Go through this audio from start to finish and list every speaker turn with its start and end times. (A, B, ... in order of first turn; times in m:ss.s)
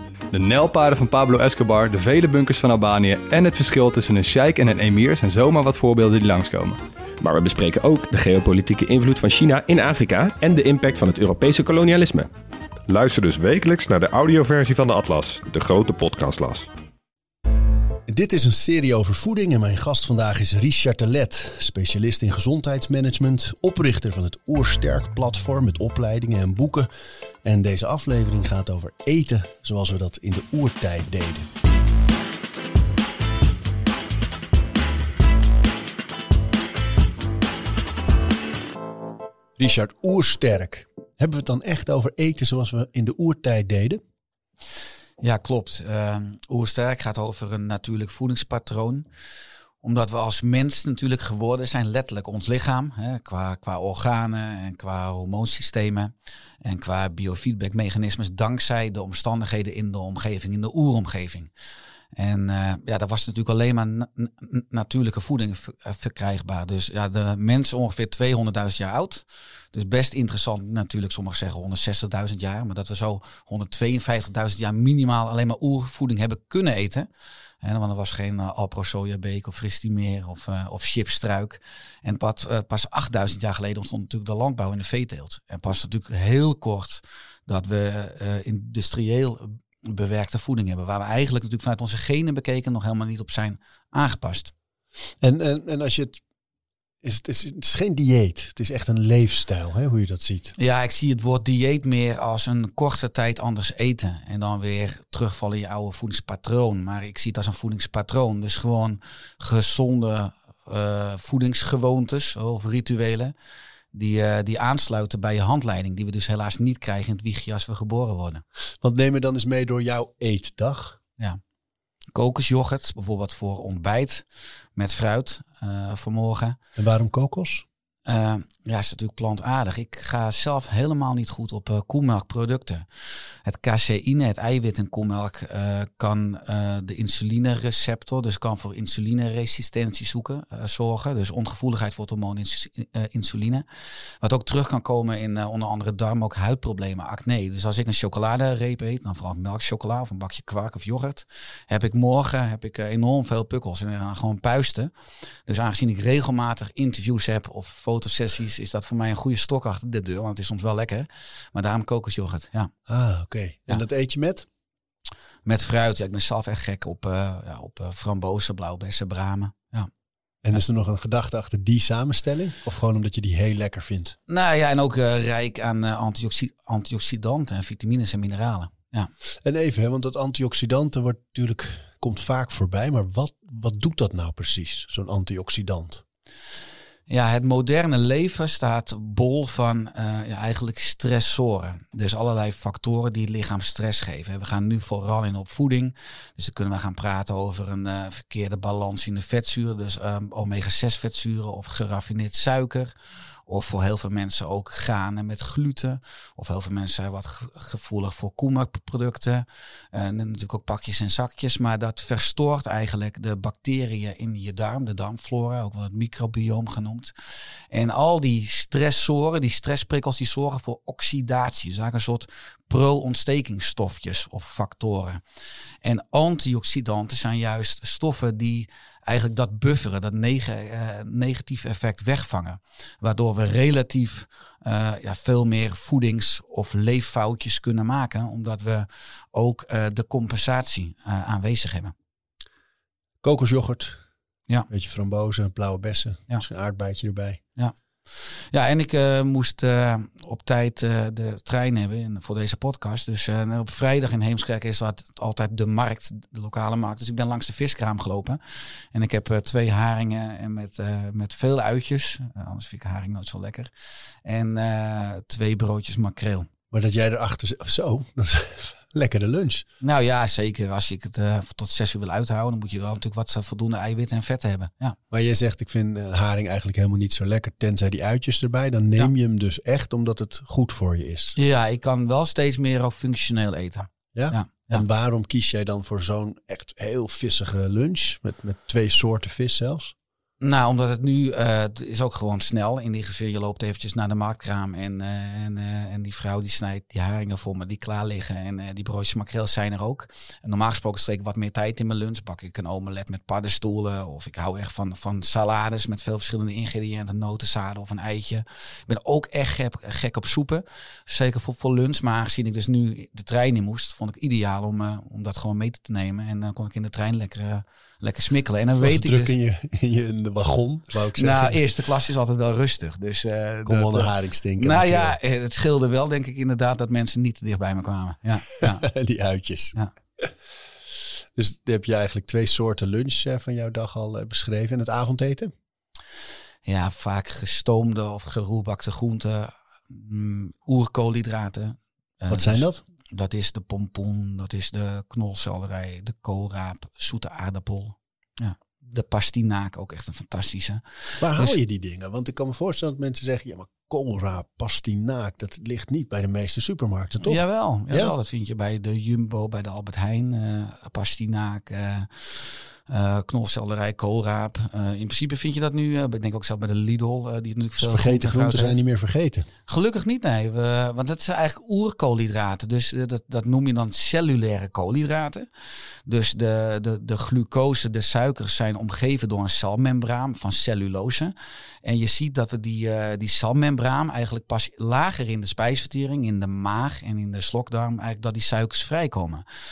0:00.3-0:06.8 A
0:07.2-0:12.3 B
0:12.9-0:16.7 C
0:18.1-0:26.9 D
0:27.4-0:31.5 D
0:39.6-0:44.0 D
0:45.2-0:49.1 E
0:49.8-1:01.5 E
1:02.2-1:17.1 E
1:17.6-1:34.5 E
1:35.2-1:36.2 D
1:37.0-1:40.6 D
1:40.6-1:53.3 E
1:53.9-1:58.4 E
1:58.8-2:01.0 D
2:02.1-2:06.6 E
2:06.8-2:07.7 D
2:08.1-2:12.9 E
2:13.4-2:23.6 E
2:24.2-2:34.9 E
2:35.5-2:42.7 E
2:42.9-2:44.5 D
2:45.4-2:49.9 E
2:50.4-2:54.2 D
2:54.3-2:59.1 E
2:59.4-3:06.0 D
3:07.1-3:22.9 E
3:23.5-3:37.1 E
3:37.7-3:45.2 E
3:45.8-4:01.9 E
4:03.2-4:04.0 D
4:04.7-4:07.4 D
4:07.6-4:18.4 E
4:18.9-4:23.7 E
4:24.2-4:26.5 E
4:26.7-4:29.7 D
4:29.8-4:35.0 E
4:35.1-4:41.4 D
4:41.4-4:44.8 E
4:44.2-4:49.9 D
4:50.4-5:19.3 E
5:18.8-5:21.6 D
5:21.1-5:28.9 E
5:23.7-5:25.2 D
5:28.6-5:30.3 D
5:31.4-5:35.5 D
5:36.6-5:51.6 E
5:42.3-5:42.8 D
5:51.2-5:58.1 D
5:57.2-6:08.8 E
6:07.8-6:09.5 D
6:09.7-6:15.5 E
6:16.1-6:29.4 E